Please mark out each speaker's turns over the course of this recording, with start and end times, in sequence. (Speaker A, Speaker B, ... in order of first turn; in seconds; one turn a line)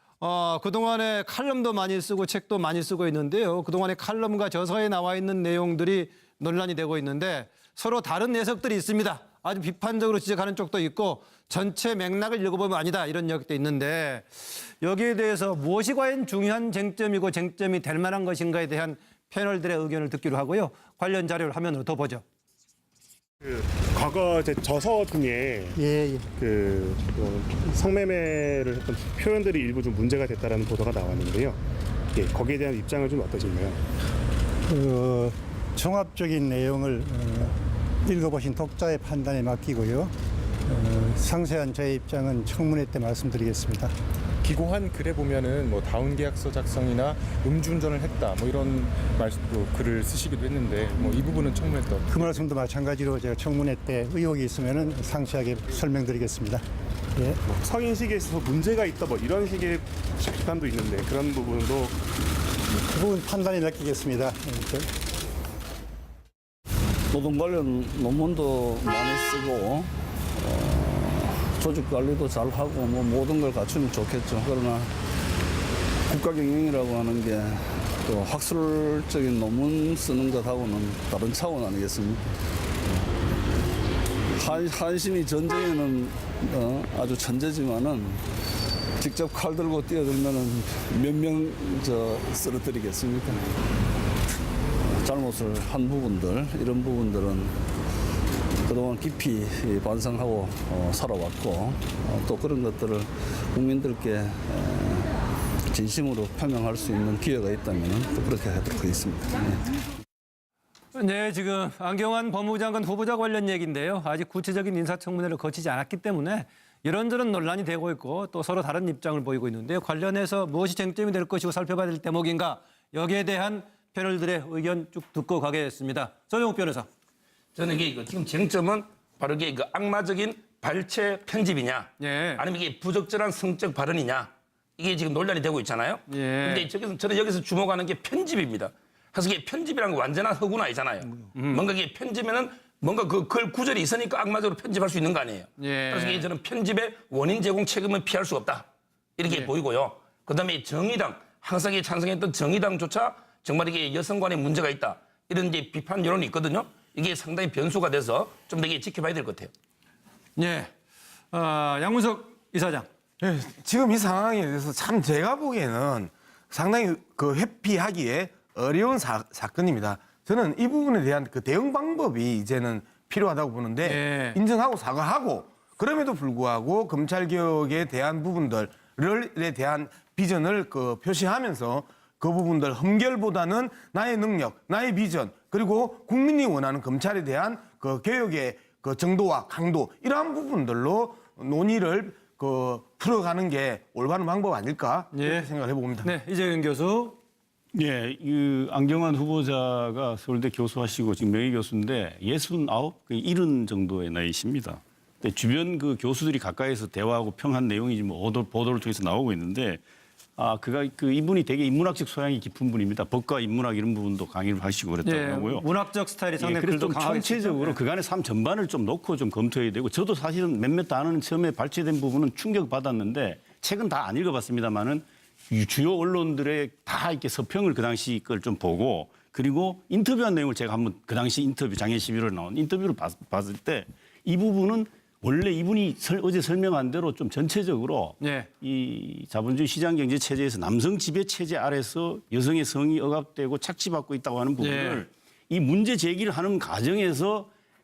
Speaker A: 0.2-22.2
Speaker B: 23.4-25.8
Speaker C: 25.8-26.2
Speaker B: 26.4-31.6
Speaker B: 32.1-33.8
Speaker C: 34.7-40.1
Speaker C: 40.7-43.9
Speaker D: 44.5-52.3
Speaker C: 52.1-56.6
Speaker B: 57.5-62.0
Speaker C: 62.9-64.9
Speaker E: 67.1-75.0
Speaker E: 76.1-82.2
Speaker E: 84.3-88.2
Speaker E: 89.0-93.5
Speaker E: 94.8-97.7
Speaker E: 98.7-105.1
Speaker E: 105.7-109.7
Speaker A: 110.9-126.9
Speaker F: 127.5-148.7
Speaker A: 132.0-132.4
Speaker A: 136.1-136.7
Speaker A: 141.3-141.6
Speaker A: 145.6-146.3
Speaker F: 149.2-159.5
Speaker A: 149.2-149.5
Speaker A: 160.3-160.7
Speaker A: 161.3-162.9
Speaker G: 163.2-196.1
Speaker A: 173.8-174.4
Speaker A: 195.1-195.5
Speaker A: 196.0-197.2
Speaker H: 197.7-209.8
Speaker H: 210.4-215.6
Speaker A: 215.0-217.8
Speaker H: 216.4-247.5
Speaker A: 238.2-238.5
Speaker A: 244.6-245.1